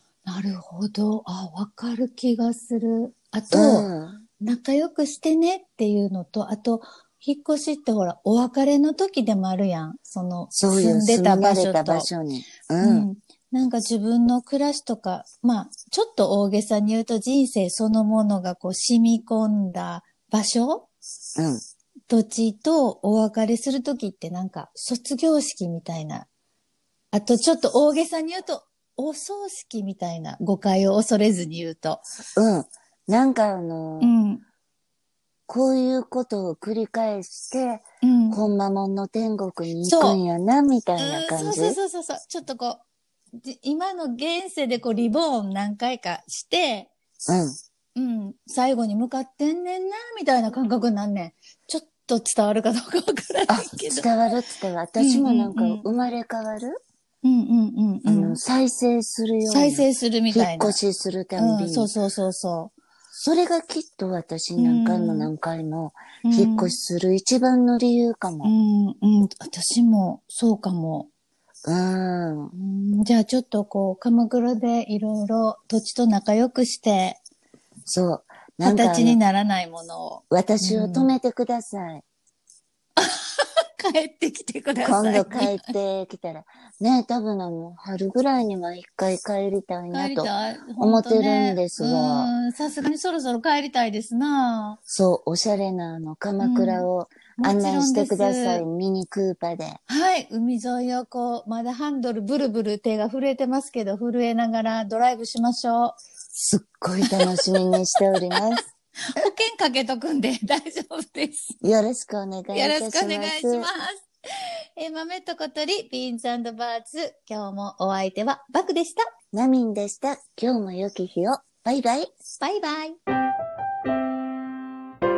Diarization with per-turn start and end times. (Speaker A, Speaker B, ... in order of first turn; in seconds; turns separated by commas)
Speaker A: 0.2-3.9, Speaker B: 3.5-4.2, Speaker A: 4.4-12.1, Speaker B: 10.5-13.1, Speaker A: 12.8-20.9, Speaker B: 21.4-21.6, Speaker A: 22.1-26.3, Speaker A: 27.1-32.0, Speaker B: 32.4-34.1, Speaker A: 34.0-34.4, Speaker B: 35.5-41.8, Speaker A: 38.0-38.4, Speaker A: 39.8-40.2, Speaker A: 41.0-42.8, Speaker A: 43.4-46.9, Speaker B: 47.2-47.6, Speaker A: 47.9-54.1, Speaker B: 53.5-56.8, Speaker A: 55.0-55.9, Speaker A: 57.2-58.4, Speaker B: 58.0-61.9, Speaker A: 59.5-60.8, Speaker A: 61.4-62.7, Speaker B: 63.1-68.5, Speaker A: 64.5-65.3, Speaker A: 66.2-66.8, Speaker A: 68.4-71.1, Speaker B: 71.7-72.5, Speaker A: 72.5-77.2, Speaker B: 77.8-79.2, Speaker A: 78.6-81.1, Speaker B: 80.3-82.0, Speaker A: 83.0-85.7, Speaker B: 84.8-92.3, Speaker A: 89.9-94.8, Speaker B: 94.9-99.8, Speaker A: 96.4-98.6, Speaker A: 99.9-106.0, Speaker B: 106.3-108.6, Speaker A: 107.0-107.4, Speaker A: 108.0-108.4, Speaker A: 109.2-111.6, Speaker B: 111.6-113.7, Speaker A: 112.5-114.0, Speaker A: 114.8-119.0, Speaker B: 119.3-122.1, Speaker A: 122.4-123.0